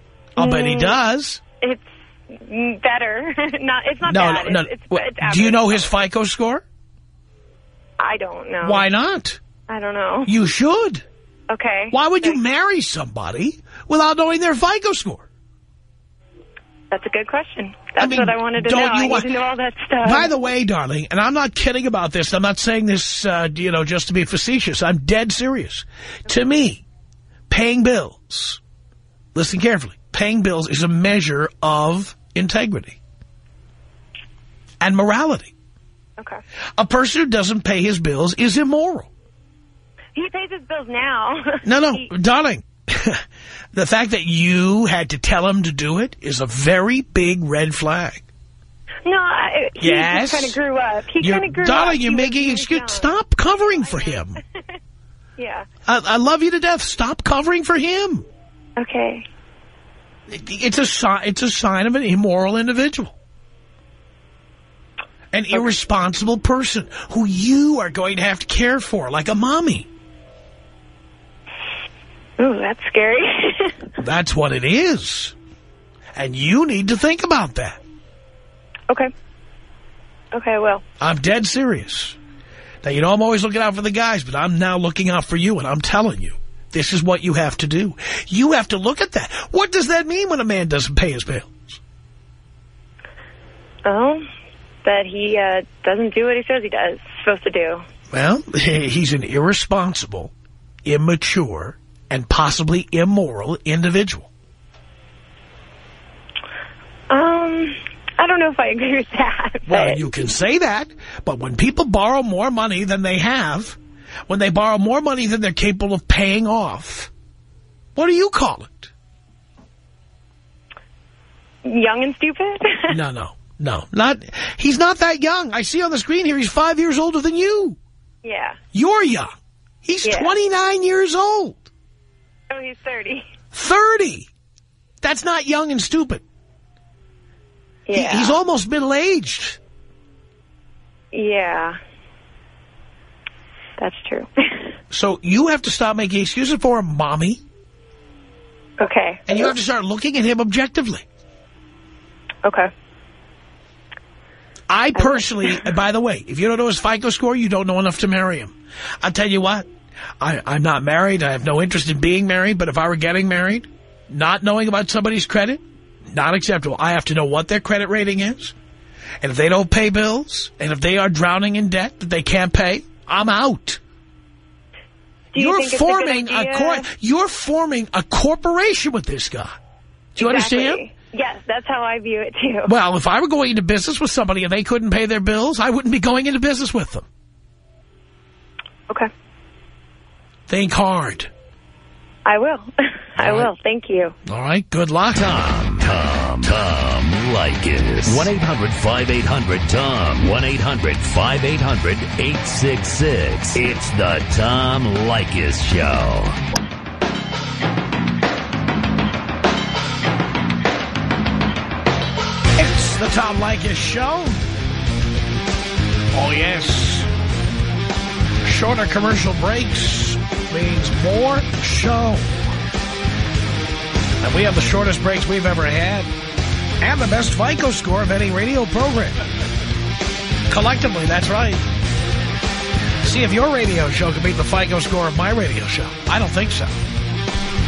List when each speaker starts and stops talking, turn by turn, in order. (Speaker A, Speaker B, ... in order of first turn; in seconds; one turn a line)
Speaker A: 0.4-1.4
Speaker B: 0.4-1.0
Speaker B: 1.6-5.9
Speaker A: 4.0-6.6
Speaker B: 8.0-8.8
Speaker A: 8.6-9.4
Speaker B: 9.7-10.3
Speaker A: 10.3-11.1
Speaker B: 11.5-12.4
Speaker A: 11.9-15.3
Speaker B: 16.9-20.3
Speaker A: 18.0-19.3
Speaker A: 20.0-26.8
Speaker A: 27.5-28.6
Speaker A: 29.3-33.0
Speaker A: 34.8-35.5
Speaker A: 36.8-39.1
Speaker B: 40.1-42.1
Speaker A: 41.6-43.2
Speaker A: 43.7-48.2
Speaker B: 49.0-54.2
Speaker A: 49.8-50.6
Speaker A: 51.2-54.4
Speaker B: 55.4-55.7
Speaker A: 55.9-58.2
Speaker B: 58.8-59.3
Speaker A: 60.3-63.1
Speaker A: 65.3-69.9
Speaker B: 72.4-73.8
Speaker A: 74.0-75.3
Speaker A: 76.2-77.8
Speaker B: 80.3-80.8
Speaker A: 81.0-82.2
Speaker A: 82.8-91.8
Speaker B: 93.8-94.3
Speaker B: 94.8-97.8
Speaker A: 98.1-100.3
Speaker A: 100.8-104.3
Speaker B: 107.1-110.0
Speaker A: 109.7-117.1
Speaker A: 118.0-118.9
Speaker B: 121.7-123.0
Speaker A: 122.9-127.8
Speaker B: 128.2-128.6
Speaker A: 128.7-129.3
Speaker A: 129.8-131.7
Speaker B: 130.0-130.3
Speaker B: 132.5-133.3
Speaker A: 133.5-134.3
Speaker A: 135.0-136.2
Speaker B: 137.9-138.4
Speaker A: 137.9-139.6
Speaker B: 141.1-141.8
Speaker B: 143.8-144.7
Speaker A: 144.9-147.4
Speaker B: 148.8-149.5
Speaker A: 149.3-151.1
Speaker B: 152.4-152.7
Speaker A: 154.7-159.7
Speaker B: 155.0-155.6
Speaker A: 160.2-168.6
Speaker A: 169.2-173.8
Speaker B: 175.3-176.9
Speaker A: 175.3-179.6
Speaker A: 180.2-180.8
Speaker B: 180.2-182.7
Speaker A: 182.7-187.1
Speaker A: 190.5-191.3
Speaker B: 192.3-194.2
Speaker A: 193.2-193.6
Speaker A: 194.3-195.4
Speaker C: 195.2-206.3
Speaker A: 212.5-214.4
Speaker A: 216.1-217.1
Speaker A: 218.4-222.3
Speaker A: 224.2-226.1
Speaker A: 226.8-229.2
Speaker A: 230.5-231.6
Speaker A: 233.0-236.8